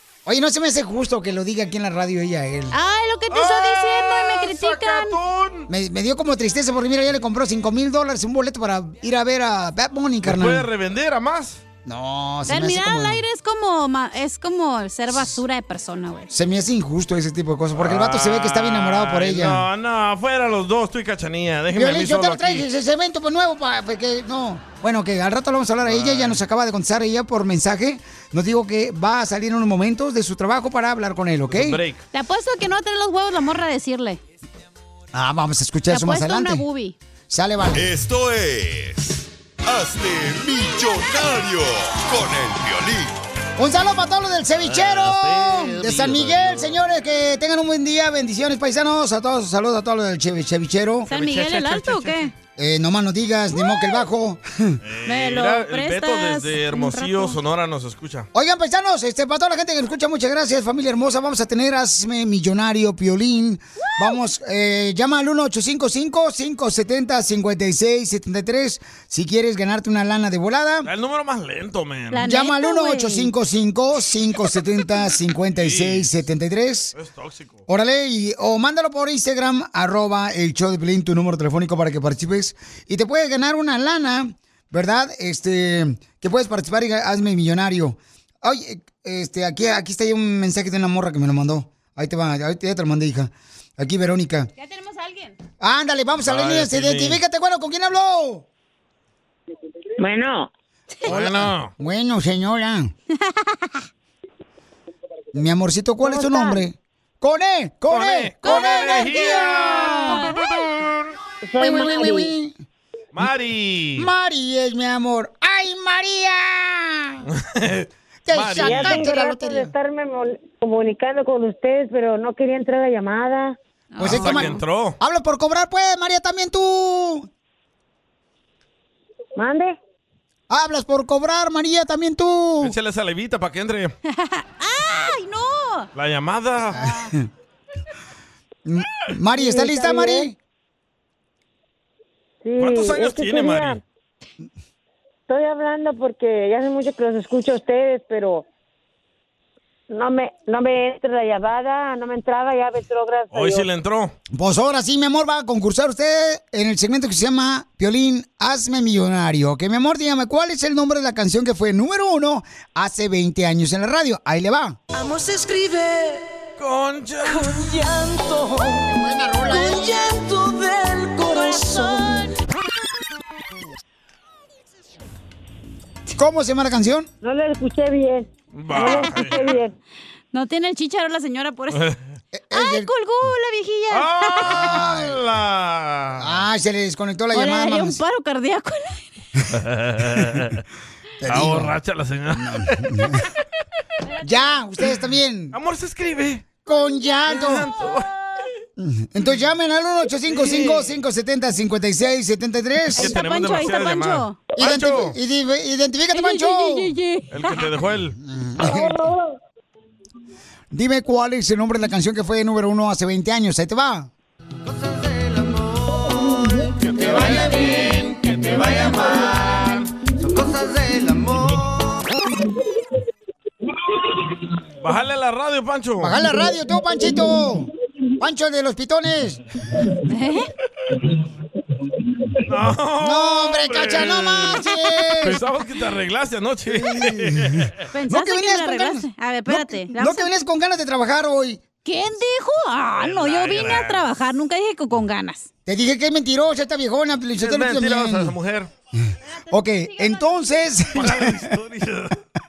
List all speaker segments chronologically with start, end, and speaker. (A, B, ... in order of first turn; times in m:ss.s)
0:00.2-0:02.8 A
0:02.7-0:05.2 B
0:03.3-0:05.7 C
0:05.7-0:10.6 A
0:10.2-0:11.6 C
0:11.8-0:13.2 A
0:12.5-0:16.3 B
0:16.3-0:19.6 A
0:17.8-0:22.6 C
0:21.7-0:31.8 A
0:25.8-0:26.4 C
0:31.5-0:32.0 C
0:32.1-0:34.2 B
0:35.1-0:36.6 A
0:35.9-0:36.9 B
0:37.3-0:37.9 A
0:37.7-0:43.2 D
0:43.6-0:51.1 A
0:44.6-0:46.8 C
0:51.1-0:52.2 C
0:51.1-0:52.3 B
0:52.6-0:54.8 A
0:54.8-0:58.3 C
0:55.0-0:57.4 B
0:58.3-1:10.9 A
1:10.8-1:12.2 C
1:12.1-1:13.3 B
1:12.2-1:16.9 A
1:15.5-1:16.1 C
1:16.9-1:17.6 C
1:17.7-1:34.5 A
1:34.6-1:35.3 B
1:35.6-1:38.4 A
1:36.2-1:37.2 C
1:40.0-1:40.5 E
1:41.0-1:41.7 C
1:41.0-1:42.9 A
1:43.2-1:43.8 B
1:45.3-1:50.3 A
1:46.0-1:46.6 E
1:47.9-1:51.1 C
1:48.4-1:50.4 B
1:51.4-1:52.3 E
1:51.6-1:52.6 A
1:53.1-1:54.1 C
1:54.0-1:57.2 A
1:57.3-1:59.1 C
1:58.2-1:59.7 A
1:58.6-2:03.6 E
2:03.9-2:04.6 B
2:04.0-2:07.3 A
2:04.0-2:05.0 C
2:09.4-2:09.8 E
2:10.5-2:12.7 A
2:12.6-2:13.9 C
2:14.1-2:15.9 B
2:15.9-2:16.8 C
2:16.7-2:17.3 A
2:18.6-2:20.3 A
2:19.3-2:20.3 E
2:22.4-2:23.8 E
2:22.6-2:23.8 C
2:25.3-2:28.4 E
2:29.9-2:33.7 E
2:33.3-2:34.1 C
2:34.3-2:44.8 A
2:44.9-2:46.4 F
2:46.6-2:47.6 C
2:47.2-2:52.4 F
2:48.9-2:49.9 A
2:51.3-2:52.3 B
2:56.2-2:57.1 A
2:57.2-2:59.7 E
2:58.5-2:59.6 C
3:00.3-3:01.8 B
3:01.7-3:02.0 C
3:02.3-3:02.9 A
3:02.5-3:04.6 B
3:03.9-3:06.4 C
3:04.4-3:05.2 A
3:06.2-3:08.0 A
3:07.3-3:09.1 B
3:09.5-3:10.6 C
3:11.2-3:11.7 A
3:11.3-3:12.8 C
3:12.3-3:13.2 A
3:14.2-3:15.6 A
3:15.5-3:16.5 C
3:16.6-3:17.7 A
3:17.3-3:18.1 C
3:18.8-3:23.2 A
3:20.3-3:21.0 C
3:22.9-3:25.2 C
3:23.0-3:24.4 B
3:24.6-3:26.9 A
3:26.1-3:27.7 B
3:27.3-3:28.2 C
3:28.2-3:29.1 A
3:30.7-3:34.1 A
3:36.8-3:39.8 C
3:44.8-3:46.2 C
3:46.0-3:49.4 A
3:50.1-3:50.5 B
3:52.4-3:54.6 C
3:53.0-3:55.4 A
3:55.2-3:57.7 C
3:56.7-4:01.6 A
3:57.9-4:00.3 B
4:01.8-4:05.5 B
4:03.0-4:04.0 C
4:05.6-4:08.3 A
4:07.4-4:08.7 C
4:09.0-4:11.5 A
4:09.3-4:10.5 B
4:10.9-4:12.2 C